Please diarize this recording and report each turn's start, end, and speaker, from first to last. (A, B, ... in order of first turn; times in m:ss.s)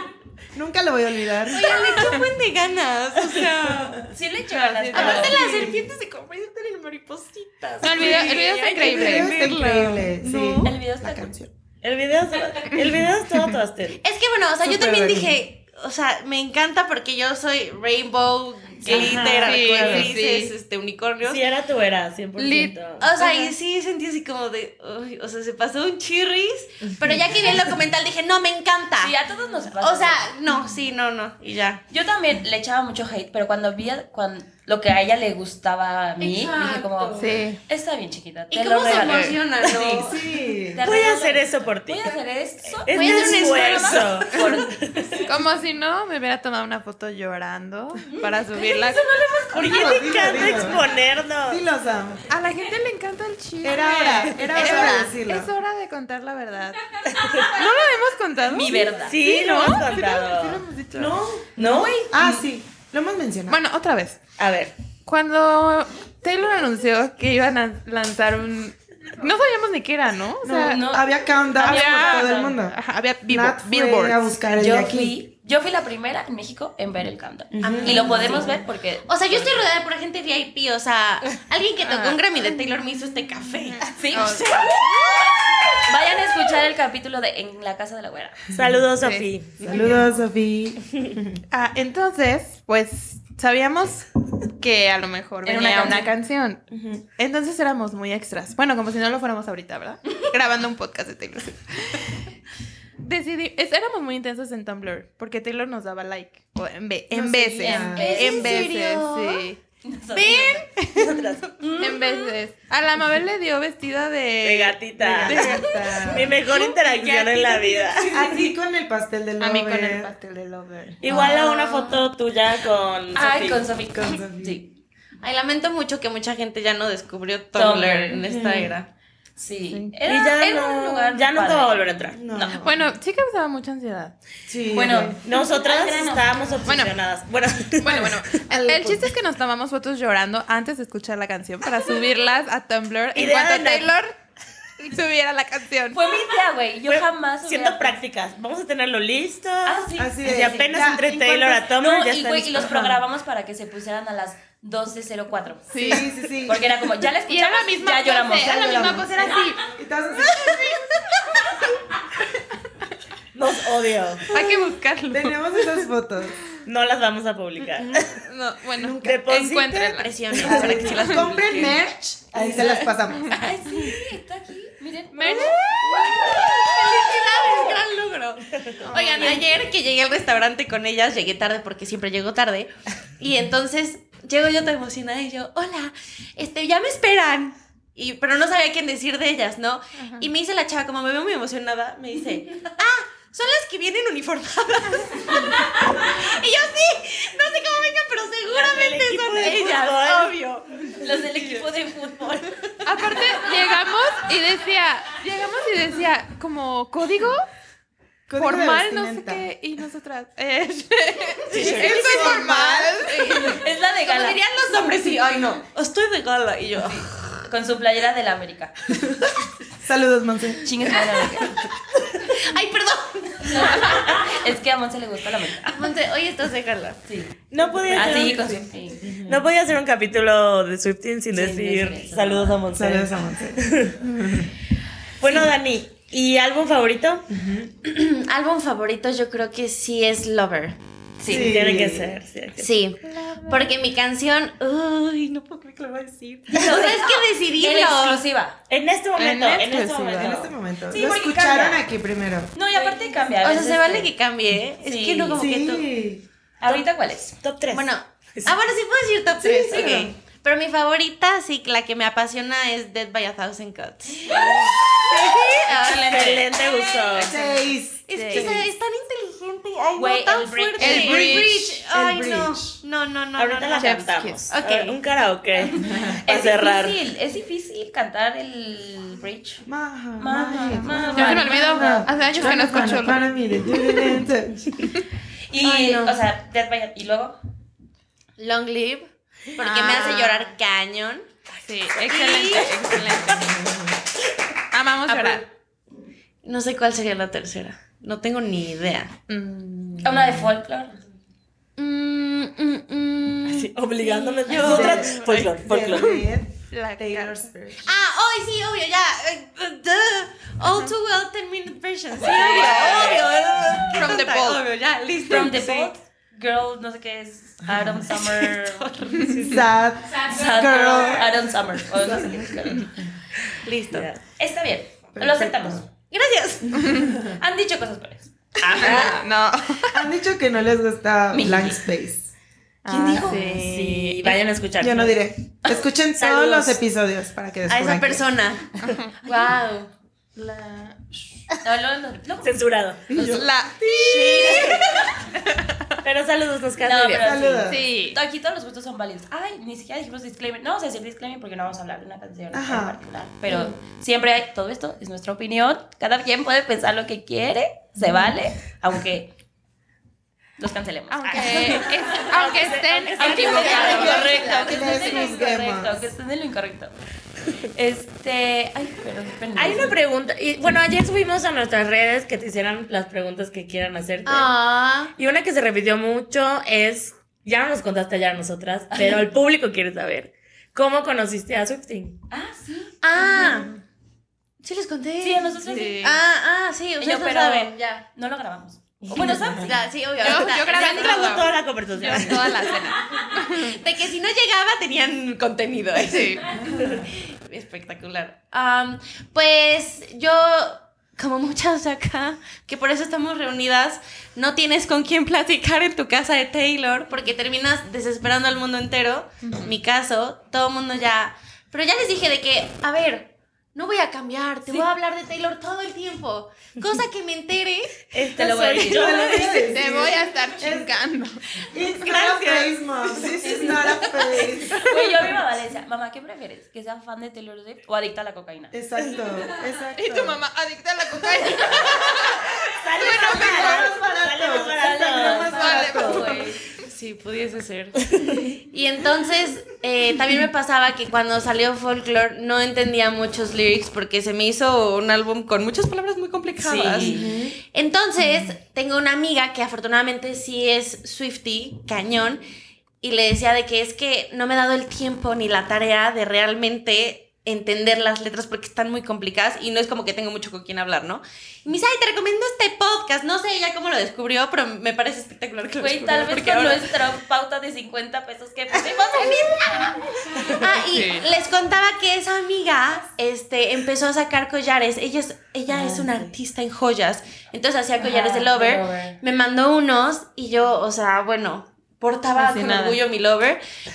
0:00.5-0:01.9 A
0:01.5-0:04.1 B
0:04.1-0:05.7 C
0:04.5-0:05.6 D
0:04.9-0:10.7 B
0:05.4-0:05.8 A
0:07.8-0:09.4 D
0:08.0-0:08.4 E
0:08.8-0:11.5 A
0:10.6-0:11.3 C
0:11.8-0:14.0 E
0:14.0-0:21.4 B
0:14.6-0:15.4 A
0:18.8-0:19.4 C
0:18.8-0:20.1 E
0:18.9-0:20.5 D
0:21.2-0:23.1 E
0:22.4-0:23.5 D
0:23.0-0:29.1 B
0:29.0-0:30.3 C
0:29.7-0:31.8 B
0:31.9-0:40.2 C
0:36.2-0:37.4 B
0:37.2-0:37.6 D
0:38.5-0:40.2 B
0:38.9-0:39.3 D
0:40.0-0:40.8 A
0:40.7-0:44.8 C
0:40.8-0:42.1 E
0:42.8-0:45.2 E
0:42.9-0:44.2 B
0:45.2-0:49.8 D
0:48.1-0:50.7 C
0:49.5-0:51.6 E
0:49.6-0:50.8 A
0:51.4-0:52.3 A
0:52.3-1:01.2 D
0:53.6-0:55.5 A
0:54.6-0:55.1 B
0:57.1-0:57.5 E
0:58.5-0:59.2 C
0:59.0-1:00.6 E
1:00.9-1:01.5 A
1:01.6-1:02.0 E
1:01.6-1:02.4 C
1:02.1-1:03.6 A
1:03.5-1:04.2 D
1:04.4-1:04.7 E
1:05.0-1:10.8 D
1:10.4-1:15.2 A
1:10.6-1:12.6 C
1:11.6-1:14.4 D
1:14.6-1:19.6 C
1:17.5-1:18.5 A
1:17.6-1:23.9 B
1:21.8-1:22.6 D
1:23.6-1:25.1 D
1:24.0-1:25.2 C
1:25.8-1:28.5 C
1:28.5-1:29.6 E
1:29.0-1:29.3 D
1:29.6-1:29.9 B
1:29.6-1:31.4 A
1:31.5-1:36.6 D
1:35.4-1:36.1 C
1:36.7-1:37.0 A
1:37.2-1:42.2 D
1:43.0-1:49.6 D
1:47.1-1:48.1 A
1:47.6-1:48.7 C
1:47.8-1:49.4 B
1:49.8-1:50.7 C
1:50.1-1:50.7 B
1:50.7-1:51.2 D
1:51.0-1:51.9 E
1:51.6-1:52.2 B
1:51.8-1:56.1 D
1:54.4-1:58.2 E
1:55.0-1:56.3 A
1:56.5-1:58.5 B
1:58.1-2:00.1 A
1:59.4-2:01.0 D
2:01.0-2:03.6 E
2:01.1-2:02.0 B
2:03.1-2:04.7 C
2:03.9-2:04.6 A
2:05.2-2:08.9 B
2:07.5-2:08.2 C
2:08.2-2:08.7 A
2:09.4-2:12.7 C
2:10.0-2:12.2 E
2:12.1-2:12.8 A
2:12.6-2:14.1 D
2:14.5-2:15.2 A
2:14.7-2:16.7 C
2:15.2-2:18.4 E
2:16.6-2:16.9 D
2:17.8-2:24.1 D
2:17.8-2:19.1 A
2:23.1-2:23.9 E
2:24.8-2:26.0 D
2:25.9-2:28.0 C
2:26.8-2:33.0 E
2:29.6-2:30.7 C
2:30.0-2:31.6 A
2:31.6-2:39.3 C
2:35.7-2:36.1 D
2:35.8-2:36.6 A
2:37.2-2:39.7 D
2:38.4-2:40.8 A
2:40.4-2:40.8 D
2:43.3-2:44.3 E
2:44.3-2:45.9 D
2:45.1-2:46.4 A
2:46.6-2:48.2 E
2:48.2-2:51.4 D
2:48.8-2:49.2 A
2:49.0-2:50.8 E
2:50.0-2:51.8 B
2:50.4-2:53.3 A
2:53.2-2:56.5 C
2:55.1-2:55.7 D
2:55.6-3:21.6 B
2:58.9-2:59.5 D
3:10.0-3:10.3 D
3:18.5-3:20.4 E
3:21.0-3:22.6 C
3:22.8-3:27.4 D
3:28.3-3:29.4 A
3:28.3-3:33.6 D
3:31.5-3:33.3 A
3:31.6-3:32.4 B
3:33.3-3:34.4 C
3:34.0-3:37.1 B
3:36.8-3:38.7 C
3:39.8-3:41.0 A
3:40.6-3:41.6 C
3:42.2-3:44.4 B
3:43.4-3:45.9 C
3:45.6-3:47.0 B
3:47.0-3:47.4 C
3:47.5-3:54.0 E
3:47.9-3:49.1 C
3:49.0-3:49.4 A
3:51.3-3:52.6 C
3:52.7-3:54.5 A
3:55.2-3:57.3 E
3:57.3-3:57.7 A
3:57.8-4:00.8 B
4:01.2-4:01.6 C
4:01.3-4:02.2 A
4:01.3-4:02.7 E
4:02.6-4:08.2 B
4:03.1-4:03.6 D
4:06.5-4:08.6 C
4:08.7-4:10.5 E
4:09.2-4:10.4 D
4:10.2-4:12.5 A
4:10.9-4:11.8 C
4:12.5-4:14.1 C
4:12.7-4:15.9 B
4:14.8-4:15.5 C
4:15.4-4:16.2 A
4:16.6-4:17.4 C
4:17.4-4:18.5 E
4:17.7-4:27.5 B
4:19.4-4:20.1 A
4:19.4-4:20.1 C
4:24.0-4:26.5 C
4:25.7-4:27.4 E
4:27.2-4:28.7 A
4:28.1-4:35.0 B
4:28.1-4:28.5 C
4:30.0-4:31.4 C
4:30.8-4:31.7 D
4:31.3-4:32.8 A
4:33.4-4:37.0 E
4:33.8-4:34.4 D
4:35.8-4:39.6 C
4:35.9-4:36.1 A
4:39.6-4:44.7 A
4:40.2-4:42.2 C
4:41.1-4:43.4 D
4:42.4-4:42.8 B
4:45.5-4:47.4 C
4:45.6-4:46.2 B
4:48.4-4:51.3 B
4:49.6-4:50.5 D
4:51.6-4:53.6 D
4:52.0-4:52.9 B
4:53.2-4:53.9 A
4:54.7-4:55.4 D
4:56.4-4:59.1 B
4:59.3-5:00.4 D
5:00.0-5:00.9 C
5:01.8-5:05.2 B
5:03.5-5:06.2 E
5:04.6-5:07.5 D
5:04.6-5:07.9 A
5:07.8-5:15.9 B
5:12.2-5:13.1 C
5:12.2-5:13.2 D
5:12.6-5:13.2 E
5:13.9-5:14.6 D
5:15.2-5:19.3 C
5:18.1-5:19.6 B
5:19.4-5:21.3 A
5:20.1-5:22.9 C
5:22.0-5:22.7 A
5:23.6-5:24.1 B
5:23.9-5:24.2 E
5:24.4-5:25.9 C
5:25.1-5:25.8 A
5:26.1-5:26.9 B
5:26.7-5:27.4 A
5:27.2-5:29.0 C
5:28.6-5:29.2 E
5:28.7-5:30.0 D
5:29.9-5:32.3 A
5:31.3-5:31.8 C
5:32.8-5:33.7 D
5:32.9-5:34.4 C
5:33.0-5:33.3 A
5:33.3-5:35.2 E
5:34.8-5:38.2 A
5:36.1-5:36.8 E
5:37.7-5:39.9 B
5:38.8-5:39.1 D
5:39.2-5:39.6 C
5:40.3-5:41.1 D
5:41.6-5:42.6 C
5:42.4-5:43.2 E
5:43.1-5:44.4 A
5:43.1-5:43.4 C
5:43.2-5:45.9 D
5:44.0-5:44.9 B
5:44.4-5:44.8 E
5:46.0-5:47.4 E
5:46.8-5:59.3 C
5:47.2-5:47.8 A
5:47.6-5:48.2 D
5:52.5-5:53.0 A
5:58.0-5:58.3 A
6:00.6-6:02.2 C
6:01.1-6:04.3 D
6:01.5-6:04.4 E
6:03.2-6:06.9 C
6:03.2-6:05.3 B
6:03.8-6:06.0 A
6:07.7-6:10.0 C
6:09.6-6:14.5 E
6:14.2-6:15.1 B
6:15.2-6:22.2 E
6:18.9-6:19.2 C
6:22.3-6:23.4 C
6:23.0-6:23.7 B
6:24.6-6:28.0 B
6:25.2-6:26.2 C
6:25.6-6:26.2 D
6:27.0-6:31.2 C
6:29.0-6:29.6 E
6:29.6-6:31.5 B
6:30.2-6:33.8 D
6:30.7-6:32.8 E
6:33.5-6:58.1 B
6:36.0-6:36.6 D
6:58.1-6:59.7 E
6:58.3-6:59.3 C
6:58.8-7:00.9 A
6:59.6-7:01.6 D
7:01.7-7:04.9 A
7:01.9-7:03.3 B
7:02.1-7:02.6 E
7:03.4-7:08.7 C
7:08.7-7:10.4 A
7:09.9-7:13.9 D
7:12.7-7:15.6 E
7:13.0-7:16.4 A
7:14.8-7:16.6 C
7:15.4-7:16.5 D
7:16.8-7:32.4 B
7:26.6-7:27.3 C
7:27.0-7:27.6 A
7:33.0-7:46.9 B
7:45.8-7:50.0 C
7:48.7-8:03.6 B
7:50.8-7:51.2 D
7:55.7-7:56.1 C
7:58.0-7:59.2 C
8:02.3-8:03.0 D